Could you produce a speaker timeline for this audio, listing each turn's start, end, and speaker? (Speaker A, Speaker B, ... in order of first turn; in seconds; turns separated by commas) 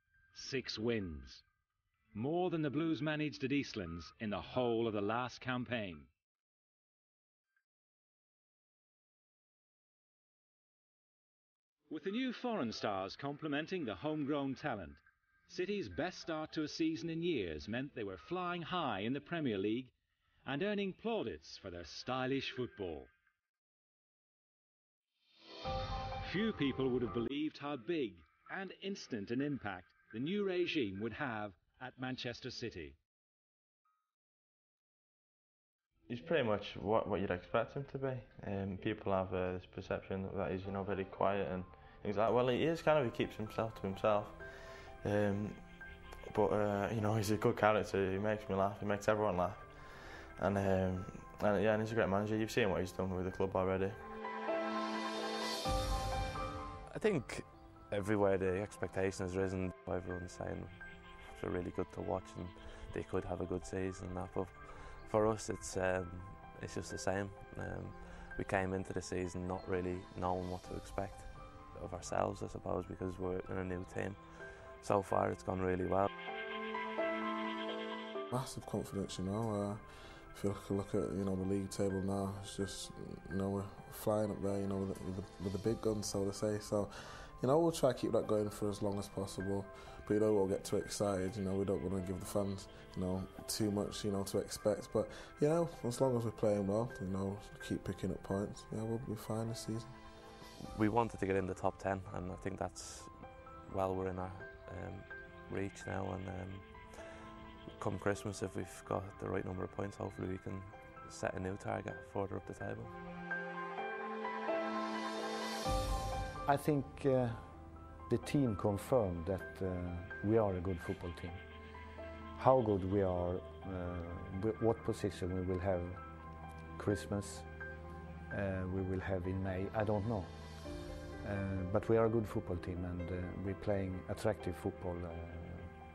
Speaker A: 0.3-1.4, Speaker A: 2.1-6.1, Speaker A: 11.9-19.9, Speaker A: 20.4-23.1, Speaker A: 26.2-33.0, Speaker B: 36.1-44.4, Speaker B: 45.0-45.6, Speaker B: 46.3-54.0, Speaker C: 56.9-76.1, Speaker D: 78.3-99.9, Speaker C: 100.7-107.2, Speaker C: 107.8-112.9, Speaker E: 116.4-117.5, Speaker E: 118.1-121.4, Speaker E: 122.4-126.0, Speaker E: 126.8-127.5, Speaker E: 128.3-130.3, Speaker E: 131.2-135.7